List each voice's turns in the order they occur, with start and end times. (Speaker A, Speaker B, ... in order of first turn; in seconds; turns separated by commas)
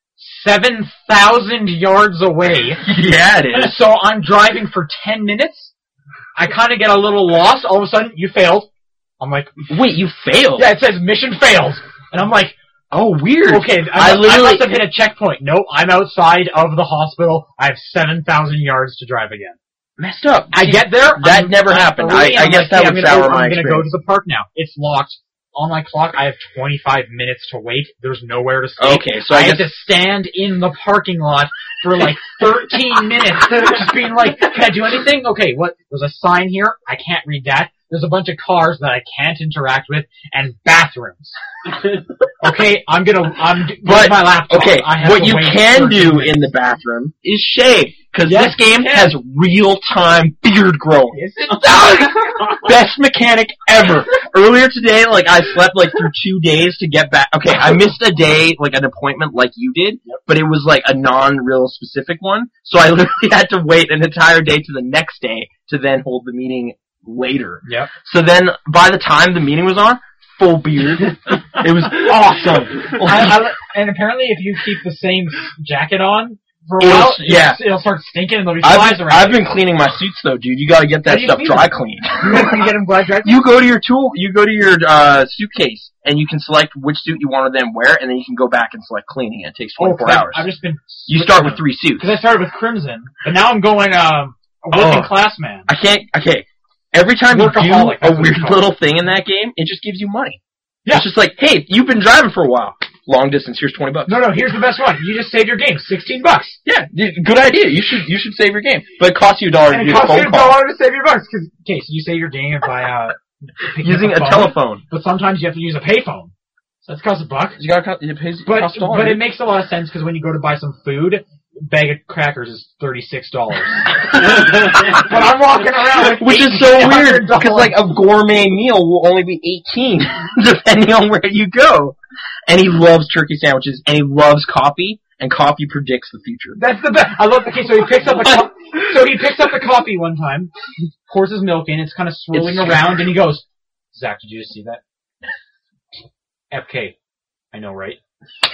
Speaker A: 0.2-2.8, Speaker B: 2.8-3.8, Speaker A: 3.5-5.7, Speaker A: 6.4-8.7, Speaker A: 9.2-9.6, Speaker B: 9.7-10.7, Speaker A: 10.6-12.6, Speaker B: 12.9-14.7, Speaker A: 13.5-19.6, Speaker B: 20.0-23.9, Speaker A: 20.5-41.4, Speaker B: 28.8-29.8, Speaker A: 42.4-46.5, Speaker B: 43.8-73.4, Speaker A: 48.2-49.2, Speaker A: 51.1-52.6, Speaker A: 67.7-67.9, Speaker A: 73.0-79.5, Speaker B: 76.8-77.6, Speaker B: 78.6-82.7, Speaker A: 81.1-83.5, Speaker B: 83.2-90.5, Speaker A: 89.8-95.7, Speaker B: 91.1-92.2, Speaker B: 94.7-95.1, Speaker B: 95.7-104.3, Speaker A: 97.3-98.7, Speaker A: 104.1-106.6, Speaker B: 106.7-110.6, Speaker A: 109.7-116.3, Speaker B: 113.8-114.8, Speaker A: 116.8-117.6, Speaker B: 117.6-119.2, Speaker A: 118.5-127.8, Speaker B: 126.0-136.6, Speaker A: 136.6-140.5, Speaker A: 141.1-144.8, Speaker B: 142.3-142.8, Speaker A: 146.5-147.0, Speaker A: 147.5-148.0